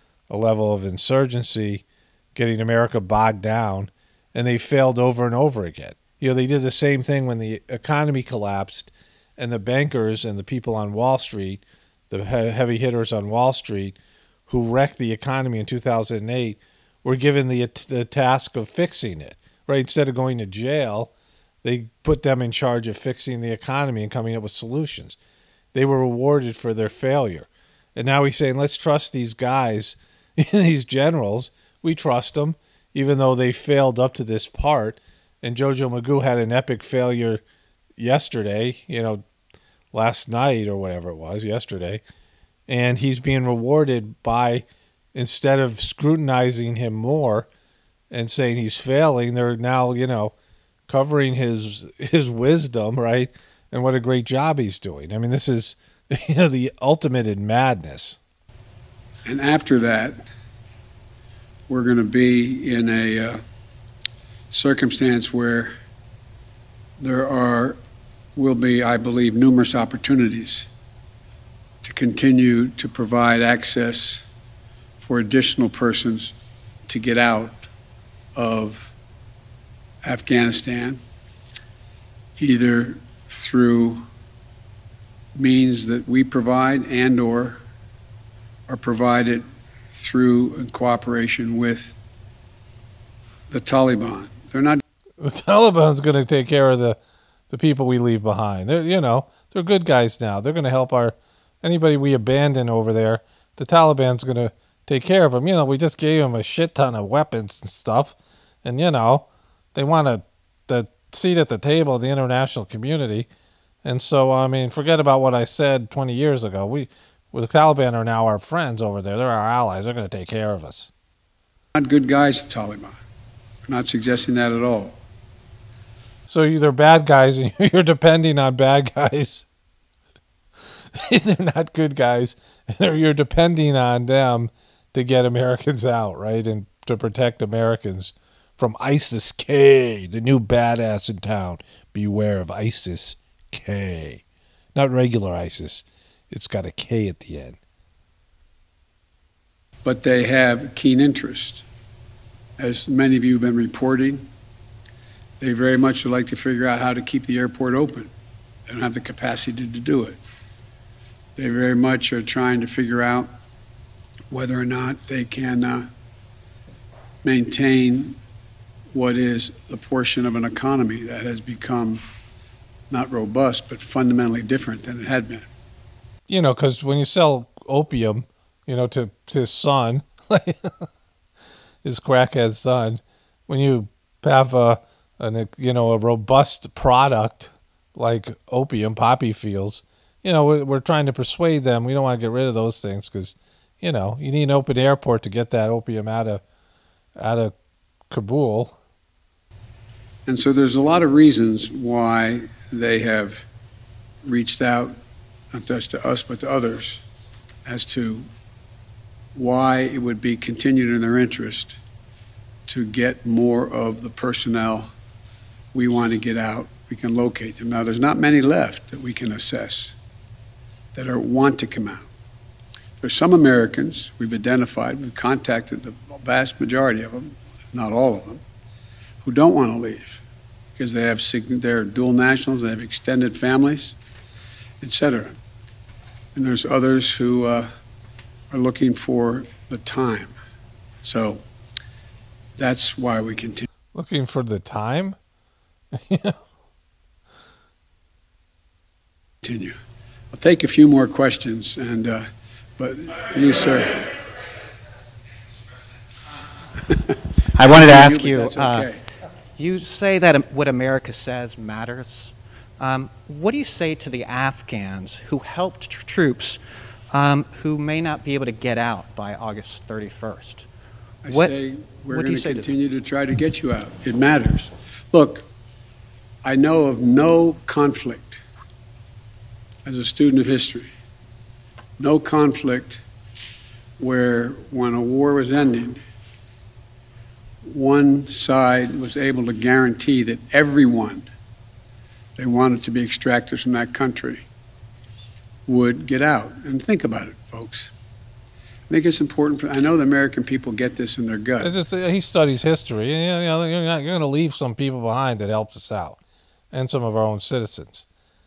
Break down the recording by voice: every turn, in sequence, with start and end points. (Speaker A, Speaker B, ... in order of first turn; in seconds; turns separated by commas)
Speaker A: 0.3-1.8, Speaker A: 2.4-14.0, Speaker A: 14.5-21.1, Speaker A: 21.6-25.2, Speaker A: 25.7-37.4, Speaker A: 38.0-39.2, Speaker A: 39.9-42.0, Speaker A: 42.7-47.5, Speaker A: 48.1-50.3, Speaker A: 50.9-58.2, Speaker B: 59.2-60.2, Speaker B: 61.7-63.4, Speaker B: 64.5-65.7, Speaker B: 67.0-67.8, Speaker B: 68.4-70.7, Speaker B: 71.8-74.2, Speaker B: 75.0-76.3, Speaker B: 76.9-77.7, Speaker B: 78.3-78.9, Speaker B: 80.0-81.0, Speaker B: 82.4-84.0, Speaker B: 85.4-87.6, Speaker B: 88.7-92.0, Speaker B: 93.5-94.8, Speaker A: 95.2-97.0, Speaker A: 97.5-113.3, Speaker A: 113.8-120.9, Speaker B: 121.7-123.0, Speaker B: 123.7-125.0, Speaker A: 126.3-129.5, Speaker A: 130.9-144.2, Speaker A: 144.8-147.6, Speaker B: 149.8-151.7, Speaker B: 152.6-154.2, Speaker B: 155.4-158.1, Speaker B: 158.7-160.2, Speaker B: 161.4-163.3, Speaker B: 164.3-165.9, Speaker B: 167.2-168.2, Speaker B: 168.9-172.0, Speaker B: 172.9-175.5, Speaker A: 176.3-180.9, Speaker A: 181.8-196.4, Speaker A: 197.2-197.5, Speaker A: 198.1-198.8, Speaker B: 200.3-203.4, Speaker B: 204.2-205.0, Speaker B: 205.5-207.0, Speaker B: 207.7-208.3, Speaker B: 209.3-211.8, Speaker B: 212.7-214.9, Speaker B: 215.7-219.9, Speaker B: 220.9-222.1, Speaker B: 223.0-228.4, Speaker B: 229.2-230.2, Speaker B: 230.8-234.0, Speaker B: 234.8-235.4, Speaker B: 236.3-237.7, Speaker B: 238.5-240.3, Speaker B: 241.0-241.4, Speaker B: 242.6-243.7, Speaker A: 243.9-245.2, Speaker A: 245.9-246.4, Speaker B: 249.4-249.8, Speaker B: 250.3-252.3, Speaker B: 252.8-254.0, Speaker C: 257.6-258.9, Speaker B: 257.7-259.0, Speaker C: 259.6-266.6, Speaker C: 267.1-270.7, Speaker B: 271.2-275.5, Speaker C: 271.3-271.6, Speaker C: 272.1-272.7, Speaker B: 276.4-278.4, Speaker B: 279.9-280.9, Speaker B: 282.0-283.0, Speaker B: 284.0-286.0, Speaker B: 287.6-291.3, Speaker B: 292.4-294.4, Speaker B: 295.7-297.9, Speaker B: 298.9-301.7, Speaker A: 301.6-306.2, Speaker A: 306.7-308.1